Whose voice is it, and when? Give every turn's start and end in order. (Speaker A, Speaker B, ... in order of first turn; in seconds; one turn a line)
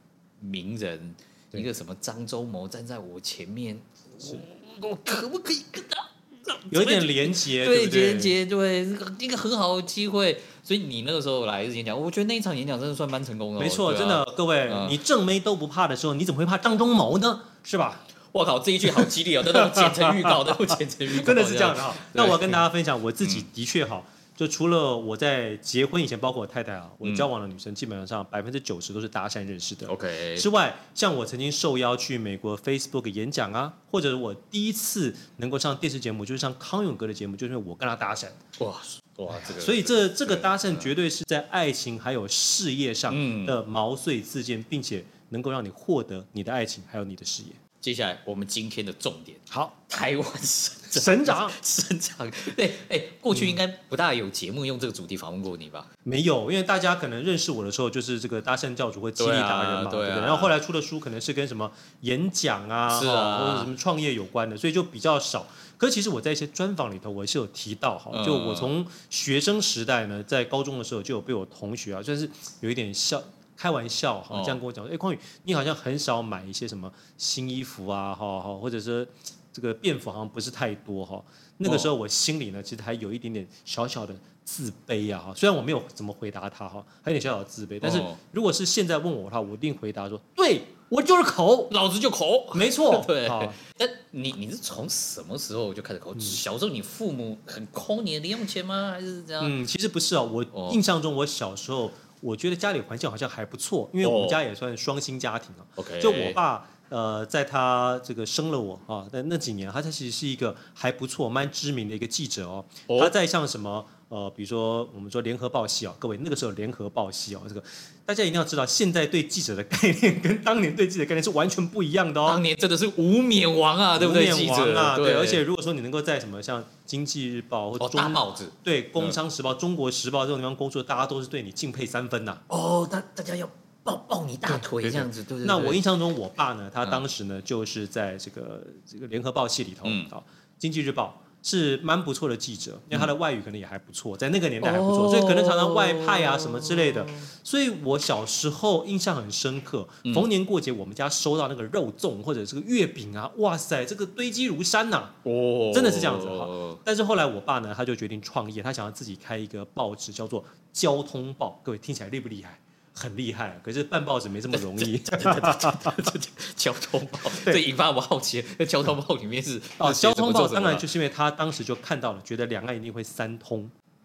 Speaker A: 0.4-15.0
Speaker B: 6.7-8.4
Speaker B: 13.6-18.1
Speaker A: 18.3-22.6
Speaker B: 18.9-38.4
Speaker A: 29.9-30.5
Speaker A: 38.6-40.9
Speaker B: 39.3-47.6
Speaker A: 43.1-43.6
Speaker A: 47.8-55.9
Speaker B: 50.9-51.6
Speaker B: 53.3-53.6
Speaker B: 56.0-91.7
Speaker A: 59.2-60.5
Speaker A: 62.9-63.7
Speaker A: 68.1-68.7
Speaker A: 74.3-74.6
Speaker A: 81.6-81.9
Speaker A: 87.8-88.2
Speaker A: 91.7-99.5
Speaker B: 92.5-93.6
Speaker B: 99.4-122.4
Speaker A: 100.5-100.8
Speaker A: 104.0-104.4
Speaker A: 105.8-106.4
Speaker A: 112.9-113.1
Speaker A: 122.2-125.4
Speaker B: 124.0-132.4
Speaker A: 127.8-129.2
Speaker A: 132.5-135.9
Speaker B: 134.5-155.2
Speaker A: 139.8-140.1
Speaker A: 144.6-147.3
Speaker A: 155.2-156.8
Speaker B: 155.7-166.1
Speaker A: 164.5-170.9
Speaker B: 169.8-173.7